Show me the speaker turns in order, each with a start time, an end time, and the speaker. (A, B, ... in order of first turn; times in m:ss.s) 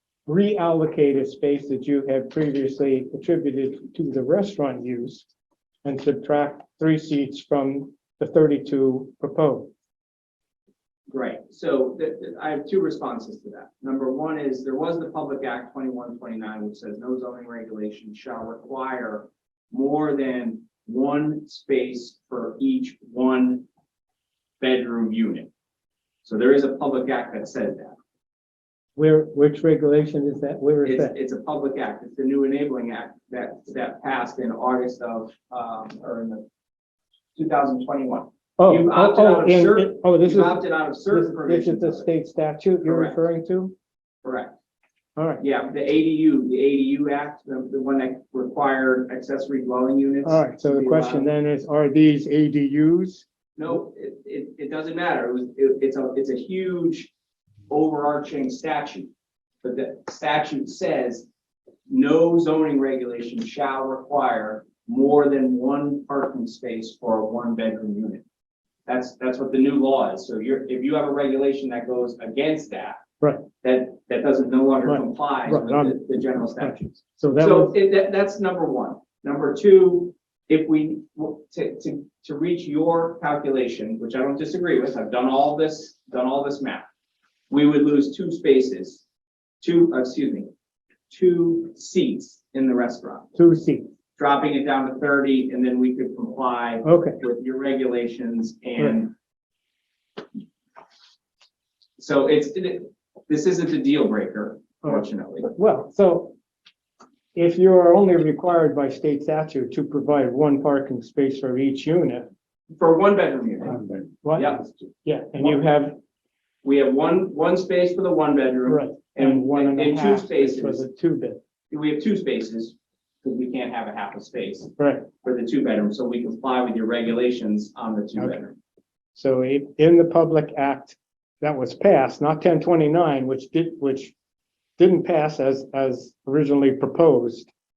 0:00.2-0:05.2 A
0:05.8-0:09.7 A
0:11.1-0:23.6 B
0:24.6-0:25.5 B
0:26.2-0:28.0 B
0:29.0-0:31.1 A
0:30.8-0:36.4 B
0:37.3-0:42.1 B
0:38.6-0:43.7 A
0:42.8-0:43.2 B
0:44.2-0:44.5 B
0:45.2-0:45.4 A
0:45.4-0:51.3 B
0:50.2-0:53.2 A
0:53.6-0:57.1 B
0:57.7-0:59.1 B
0:59.6-1:01.3 B
1:01.9-1:08.2 B
1:08.8-1:13.0 B
1:13.2-1:13.4 A
1:13.6-1:26.9 B
1:14.8-1:16.0 A
1:16.6-1:17.7 A
1:27.5-1:29.0 B
1:29.6-1:30.5 B
1:31.1-1:33.3 B
1:33.4-1:33.9 A
1:34.2-1:39.1 B
1:36.8-1:37.2 A
1:42.0-1:45.5 B
1:44.8-1:46.3 A
1:47.3-1:52.3 A
1:52.8-1:54.8 B
1:53.7-1:55.9 A
1:55.4-1:55.9 B
1:56.6-2:00.8 B
1:58.7-2:01.4 A
2:01.7-2:08.5 B
2:04.8-2:05.1 A
2:09.1-2:14.1 A
2:14.8-2:17.5 A